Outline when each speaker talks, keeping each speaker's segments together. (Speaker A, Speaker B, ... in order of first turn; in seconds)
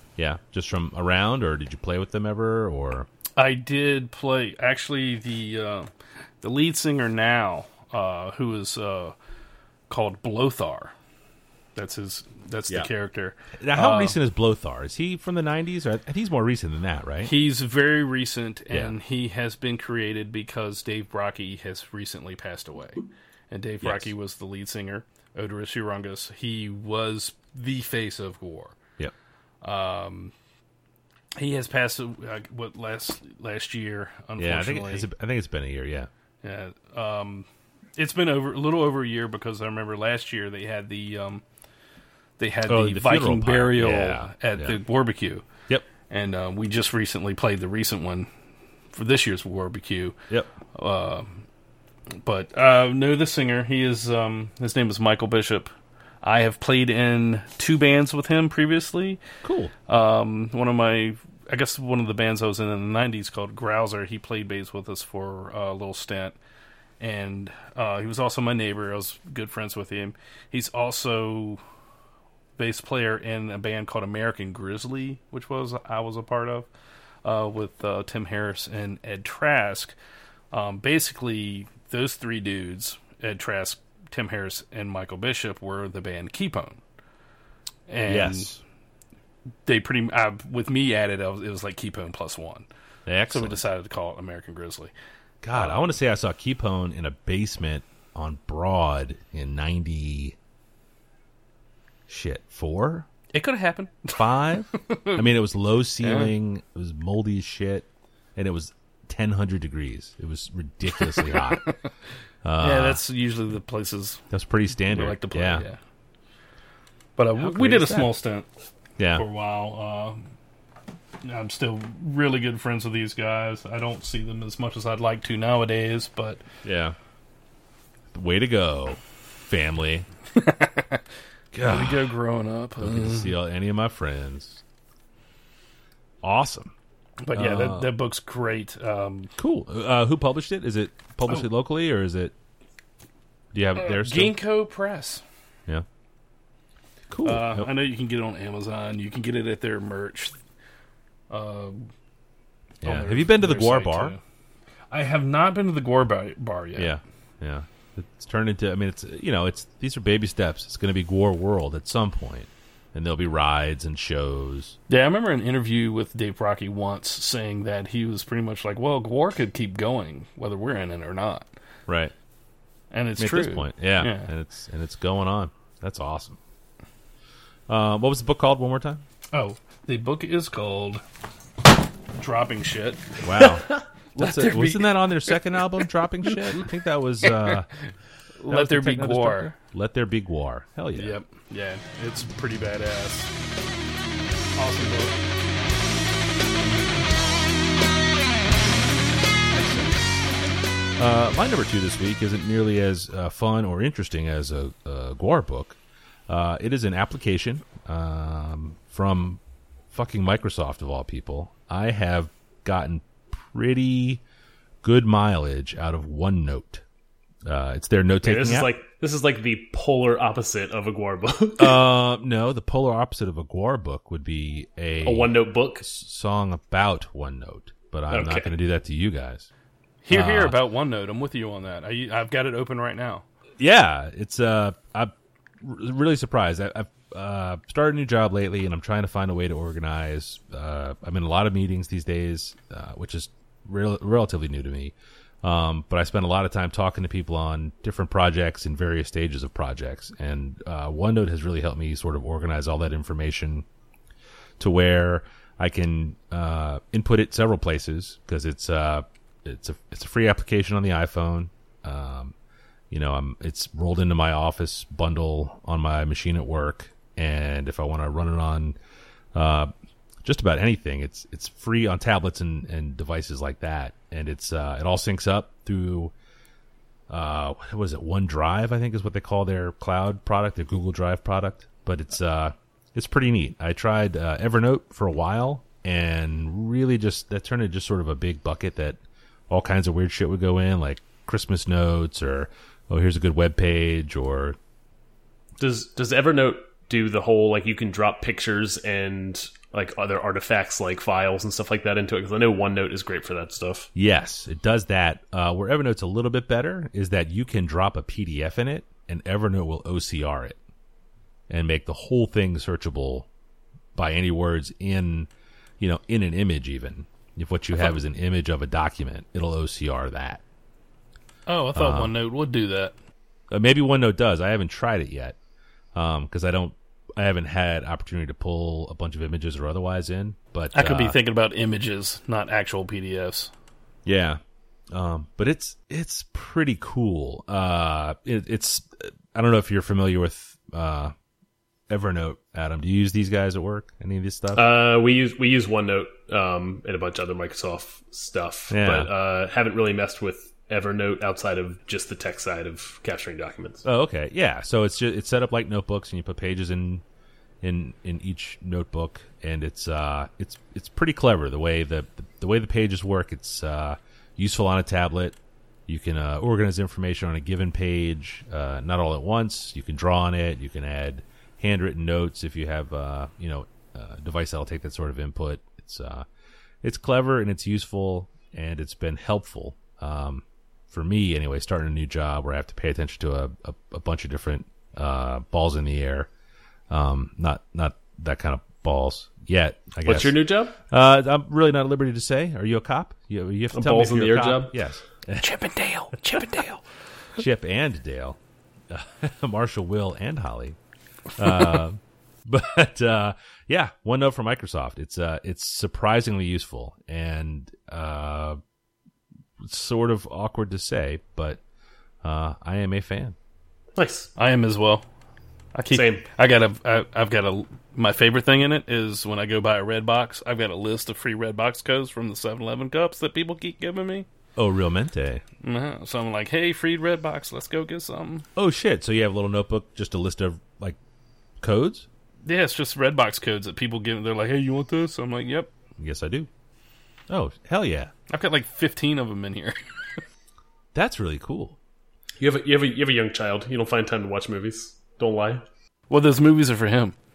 Speaker A: 0.2-3.1, 13.6-17.3, 23.8-24.1, 34.4-36.1, 42.7-44.8, 59.4-59.7, 88.0-88.6, 93.0-93.6, 95.4-100.3, 102.1-103.1, 104.1-111.7, 112.4-113.0, 114.3-115.6, 117.4-118.1, 119.0-119.2, 126.6-127.0, 128.1-130.1, 131.5-132.2, 132.8-134.6, 136.2-136.7, 137.3-137.9, 139.4-142.3, 143.5-144.3, 147.1-147.7, 152.8-154.1, 156.8-164.8, 171.9-172.1, 173.2-176.4, 177.7-179.0, 183.2-187.7, 188.5-191.2, 199.5-200.0, 201.0-209.4, 209.9-214.2, 214.8-216.8, 217.4-218.7, 221.6-229.5, 230.1-230.6, 233.6-253.6, 254.6-262.3, 262.9-268.8, 269.3-269.7, 270.2-276.1, 277.1-294.6, 303.9-310.6, 311.5-313.3, 313.9-320.4, 321.7-322.1, 323.5-325.4, 325.9-331.2, 334.0-334.4, 334.9-341.1, 341.9-344.6, 348.7-349.1, 353.8-357.0, 357.6-376.2, 376.8-386.3, 386.9-395.5, 397.4-398.4, 398.9-400.8, 401.4-408.6, 409.6-411.6, 412.2-413.4, 424.6-425.4, 428.6-431.0, 431.6-432.1, 436.0-436.5, 437.3-438.1, 440.9-441.8
Speaker B: 3.4-5.9, 6.4-9.1, 9.9-10.9, 11.8-14.2, 17.2-28.8, 29.6-30.3, 31.4-35.1, 36.4-41.4, 42.4-45.5, 46.1-48.3, 48.9-50.1, 50.7-51.4, 52.2-55.7, 56.2-59.2, 59.9-66.4, 67.0-71.6, 72.6-76.7, 77.2-79.9, 80.5-86.8, 87.9-88.5, 89.7-92.7, 93.3-94.9, 95.5-95.9, 103.3-105.2, 106.0-106.3, 111.0-111.8, 112.6-114.2, 114.8-115.8, 117.2-118.5, 119.1-120.3, 121.2-126.4, 130.3-131.0, 131.6-133.3, 137.2-139.3, 143.8-145.2, 147.2-150.3, 151.3-151.9, 152.8-154.2, 154.9-157.0, 164.9-171.5, 172.9-174.3, 179.3-181.0, 182.2-183.5, 184.2-185.4, 187.2-187.6, 188.4-189.5, 190.9-193.3, 194.6-195.2, 230.0-233.2, 321.5-322.9, 330.7-333.5, 395.4-396.8, 414.4-415.1, 415.7-424.2, 425.6-428.5, 432.4-435.7, 438.3-440.2, 446.1-447.1
Speaker C: 218.2-221.8, 225.0-225.8, 228.1-228.5, 295.6-303.9, 344.5-353.8, 390.0-390.8, 393.7-394.8, 413.9-414.3, 415.9-416.2, 442.4-445.6